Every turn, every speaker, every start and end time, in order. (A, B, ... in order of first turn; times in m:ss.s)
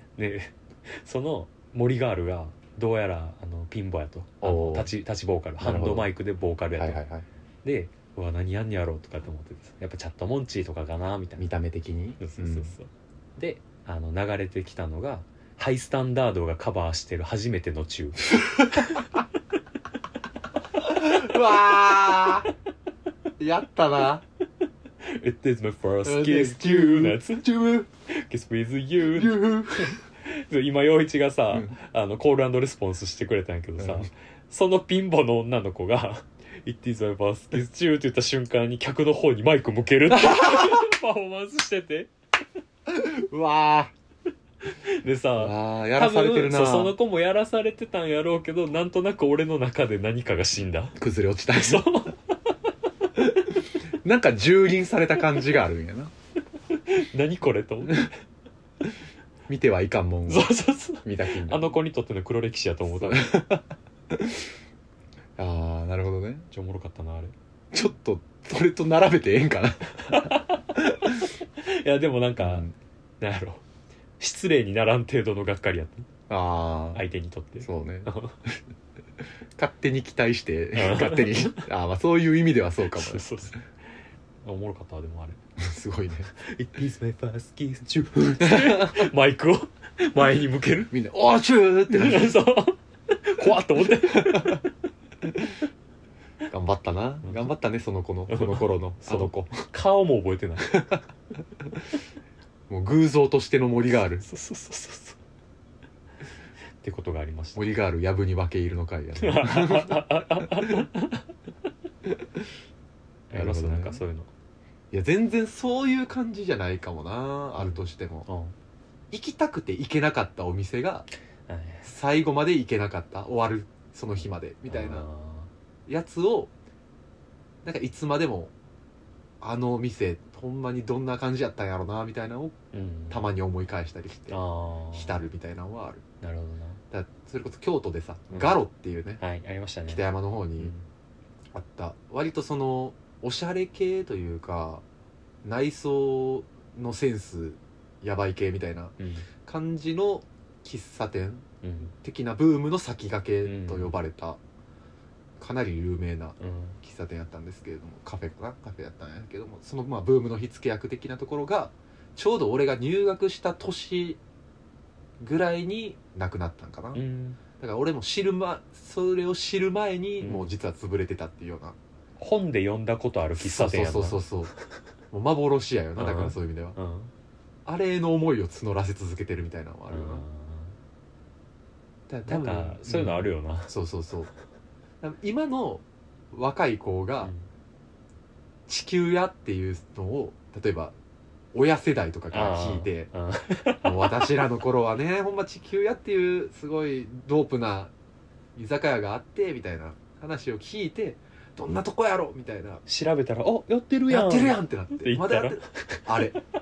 0:00.2-0:07.0 A
0:04.4-0:04.9 B
0:05.6-0:06.1 B
0:06.7-0:07.2 B
0:07.6-0:11.5 A
0:11.4-0:12.7 B
0:12.2-0:18.5 A
0:18.4-0:18.8 B
0:20.8-0:22.5 B
0:23.4-0:24.2 B
0:25.0-0:27.4 A
0:26.0-0:27.9 B
0:28.1-0:42.1 A
0:29.1-0:30.0 B
0:33.8-0:34.1 B
0:40.1-0:40.8 B
0:42.9-0:43.9 B
0:44.7-0:51.0 A
0:45.4-0:46.9 B
0:51.0-0:51.9 B
0:51.5-0:52.2 A
0:53.2-0:56.1 B
0:56.7-0:58.1 A
0:59.5-1:01.7 B
1:00.3-1:03.4 A
1:02.9-1:04.4 B
1:05.4-1:06.4 B
1:06.5-1:07.3 A
1:07.7-1:11.3 B
1:10.0-1:10.6 A
1:11.6-1:12.7 A
1:12.4-1:12.7 B
1:13.2-1:13.6 A
1:14.2-1:16.1 A
1:16.3-1:17.0 B
1:16.9-1:18.4 A
1:17.6-1:18.1 B
1:19.6-1:23.2 B
1:20.7-1:21.6 A
1:22.9-1:23.7 A
1:24.4-1:25.4 A
1:25.6-1:26.3 B
1:26.4-1:30.9 A
1:28.4-1:29.1 B
1:30.9-1:32.4 B
1:31.9-1:34.7 A
1:33.8-1:34.6 B
1:36.5-1:39.6 B
1:38.3-1:40.8 A
1:40.7-1:41.0 B
1:42.7-1:44.2 B
1:44.2-1:45.2 A
1:46.8-1:47.6 A
1:47.6-1:50.9 B
1:49.2-1:51.3 A
1:53.3-1:54.3 A
1:53.3-1:54.0 B
1:54.9-1:58.2 B
1:57.6-1:58.5 A
1:59.1-2:01.1 B
2:01.5-2:01.9 A
2:01.8-2:05.1 B
2:04.7-2:05.5 A
2:05.9-2:06.5 B
2:07.6-2:08.5 B
2:09.4-2:12.6 B
2:12.7-2:13.3 A
2:13.1-2:14.4 B
2:14.3-2:15.2 A
2:14.9-2:16.0 B
2:16.2-2:16.8 A
2:16.9-2:19.2 B
2:18.3-2:18.6 A
2:19.2-2:20.0 A
2:19.9-2:20.7 B
2:20.6-2:20.8 A
2:21.5-2:24.8 B
2:25.4-2:28.9 B
2:29.0-2:29.3 A
2:29.4-2:34.4 B
2:31.6-2:31.9 A
2:33.4-2:33.9 A
2:35.4-2:44.2 B
2:36.4-2:36.8 A
2:45.2-2:47.0 B
2:46.9-2:47.4 A
2:47.6-2:51.8 B
2:50.2-2:50.5 A
2:52.2-2:54.2 A
2:53.4-2:54.5 B
2:55.1-2:56.8 B
2:56.0-2:57.1 A
2:57.6-3:00.2 B
2:59.9-3:00.7 A
3:02.1-3:04.3 B
3:02.3-3:03.7 A
3:05.0-3:07.3 B
3:08.7-3:10.9 B
3:11.5-3:13.1 B
3:12.3-3:14.1 A
3:13.8-3:17.9 B
3:18.5-3:22.8 B
3:22.9-3:26.1 A
3:24.1-3:26.4 B